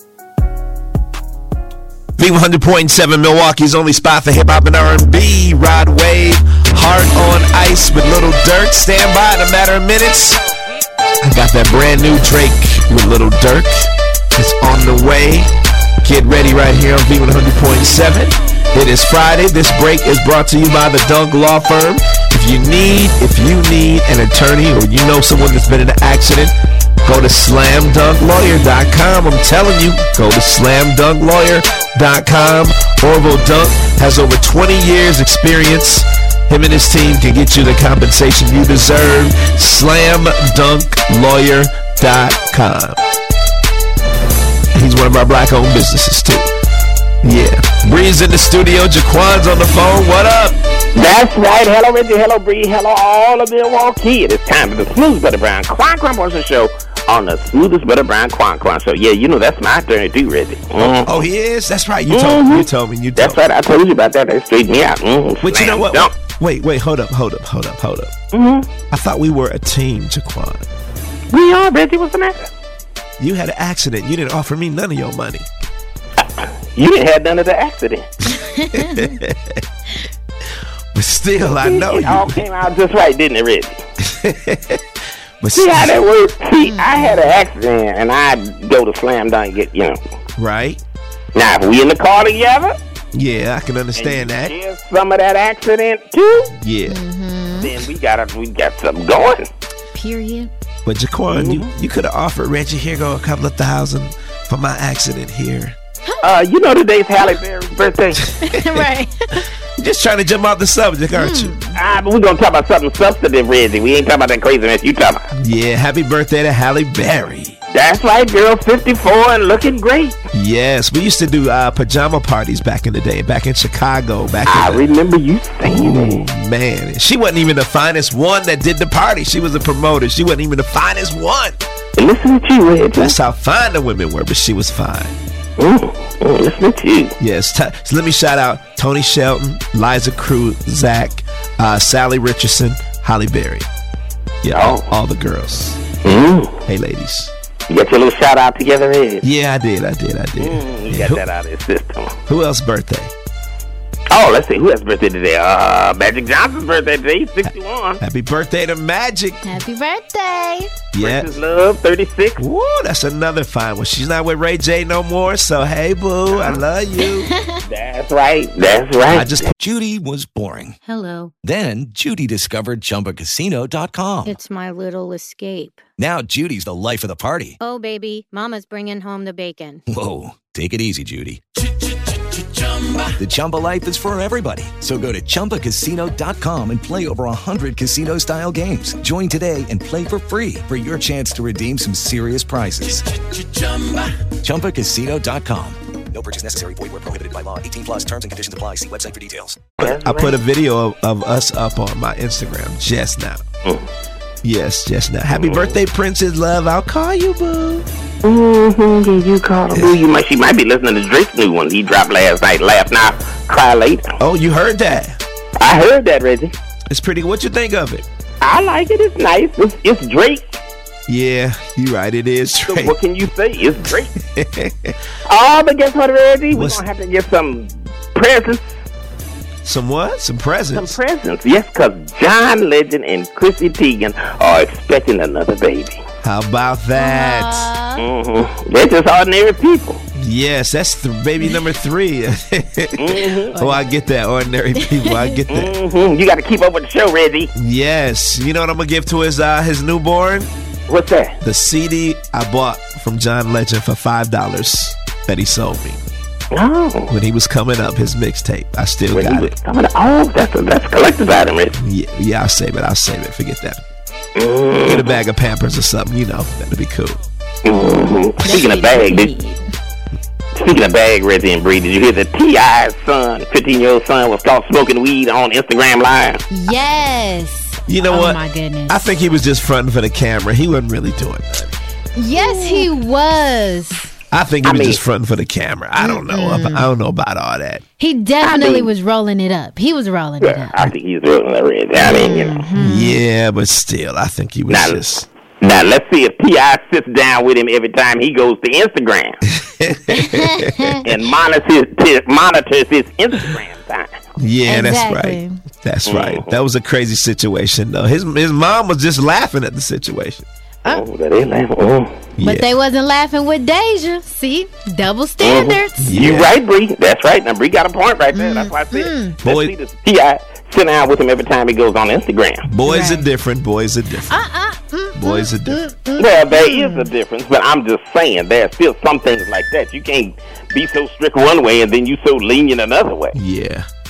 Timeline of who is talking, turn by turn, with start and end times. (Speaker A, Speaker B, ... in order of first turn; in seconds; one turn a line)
Speaker A: 2.2-10.4
Speaker A: 11.2-15.5
Speaker A: 16.0-26.5
Speaker A: 27.0-43.0
Speaker A: 44.7-46.5
Speaker A: 47.2-50.6
Speaker B: 50.9-61.1
Speaker A: 60.8-63.4
Speaker B: 62.1-66.1
Speaker A: 65.4-68.1
Speaker B: 68.3-68.7
Speaker A: 68.9-70.7
Speaker B: 71.3-72.5
Speaker A: 73.2-75.5
Speaker B: 76.4-78.1
Speaker C: 78.7-79.1
Speaker A: 78.7-79.6
Speaker A: 80.9-82.4
Speaker B: 81.4-83.8
Speaker A: 84.0-84.8
Speaker A: 85.4-85.9
Speaker B: 85.5-90.0
Speaker C: 86.6-87.3
Speaker A: 90.4-90.8
Speaker B: 91.3-92.7
Speaker A: 93.1-94.5
Speaker B: 93.9-96.5
Speaker A: 96.6-97.0
Speaker C: 96.9-97.8
Speaker B: 97.6-99.5
Speaker C: 99.9-100.5
Speaker A: 100.8-105.8
Speaker B: 101.3-101.7
Speaker B: 106.2-108.2
Speaker C: 108.5-109.4
Speaker A: 109.8-111.5
Speaker C: 111.1-111.8
Speaker B: 111.8-115.3
Speaker A: 115.3-117.6
Speaker B: 117.7-120.2
Speaker A: 120.3-124.8
Speaker B: 124.5-126.2
Speaker A: 125.6-131.6
Speaker B: 132.0-133.1
Speaker A: 133.0-135.1
Speaker B: 135.6-137.2
Speaker A: 137.2-143.7
Speaker A: 144.4-146.0
Speaker B: 144.5-144.9
Speaker B: 146.0-146.6
Speaker A: 146.7-147.3
Speaker B: 147.7-149.2
Speaker A: 149.2-151.2
Speaker B: 150.4-152.2
Speaker A: 152.3-153.1
Speaker B: 154.1-158.0
Speaker A: 158.0-159.5
Speaker C: 159.4-160.8
Speaker A: 160.9-161.3
Speaker B: 161.0-162.4
Speaker A: 162.4-167.3
Speaker B: 166.3-166.6
Speaker C: 167.2-167.6
Speaker B: 167.7-169.5
Speaker A: 169.1-169.5
Speaker D: 169.6-170.8
Speaker E: 170.9-171.3
Speaker D: 171.4-174.3
Speaker E: 174.2-175.8
Speaker D: 176.0-177.6
Speaker E: 177.6-179.8
Speaker D: 179.9-181.4
Speaker D: 182.7-199.7
Speaker B: 199.8-200.4
Speaker A: 199.8-203.4
Speaker A: 204.4-207.8
Speaker B: 205.3-205.8
Speaker B: 208.2-214.1
Speaker A: 214.2-215.2
Speaker B: 215.6-216.5
Speaker A: 216.9-218.0
Speaker B: 218.4-220.6
Speaker A: 221.1-222.9
Speaker B: 222.6-224.1
Speaker A: 224.3-224.9
Speaker B: 225.2-228.7
Speaker A: 226.5-226.8
Speaker A: 229.6-231.0
Speaker B: 230.7-236.0
Speaker A: 236.2-237.7
Speaker C: 236.9-238.0
Speaker B: 238.0-240.0
Speaker A: 240.2-245.7
Speaker B: 243.0-243.5
Speaker C: 243.6-243.8
Speaker C: 245.1-245.3
Speaker B: 245.5-247.5
Speaker A: 247.6-250.5
Speaker B: 250.9-251.4
Speaker A: 251.4-256.0
Speaker B: 256.5-257.1
Speaker A: 257.1-259.5
Speaker B: 259.1-261.8
Speaker A: 261.8-263.8
Speaker B: 264.4-265.1
Speaker A: 264.9-267.2
Speaker B: 267.6-269.3
Speaker C: 268.4-269.7
Speaker B: 270.5-276.4
Speaker C: 276.5-279.1
Speaker A: 277.9-281.7
Speaker C: 282.1-284.1
Speaker B: 282.4-282.8
Speaker A: 284.3-287.8
Speaker B: 284.6-285.0
Speaker C: 286.0-286.9
Speaker C: 288.0-290.8
Speaker B: 288.4-288.9
Speaker B: 290.4-292.6
Speaker C: 292.0-293.2
Speaker A: 292.8-295.2
Speaker B: 294.7-295.0
Speaker B: 295.6-299.4
Speaker A: 299.6-301.0
Speaker C: 300.2-301.0
Speaker B: 301.0-304.1
Speaker A: 304.4-310.4
Speaker C: 304.6-305.5
Speaker B: 306.1-306.5
Speaker B: 310.9-312.2
Speaker A: 312.4-312.7
Speaker C: 312.4-316.1
Speaker B: 315.4-322.7
Speaker A: 316.0-316.5
Speaker C: 318.3-319.4
Speaker A: 319.4-319.7
Speaker A: 322.6-324.3
Speaker C: 322.9-323.2
Speaker C: 324.3-327.1
Speaker A: 325.1-325.8
Speaker B: 326.2-333.4
Speaker A: 333.3-333.9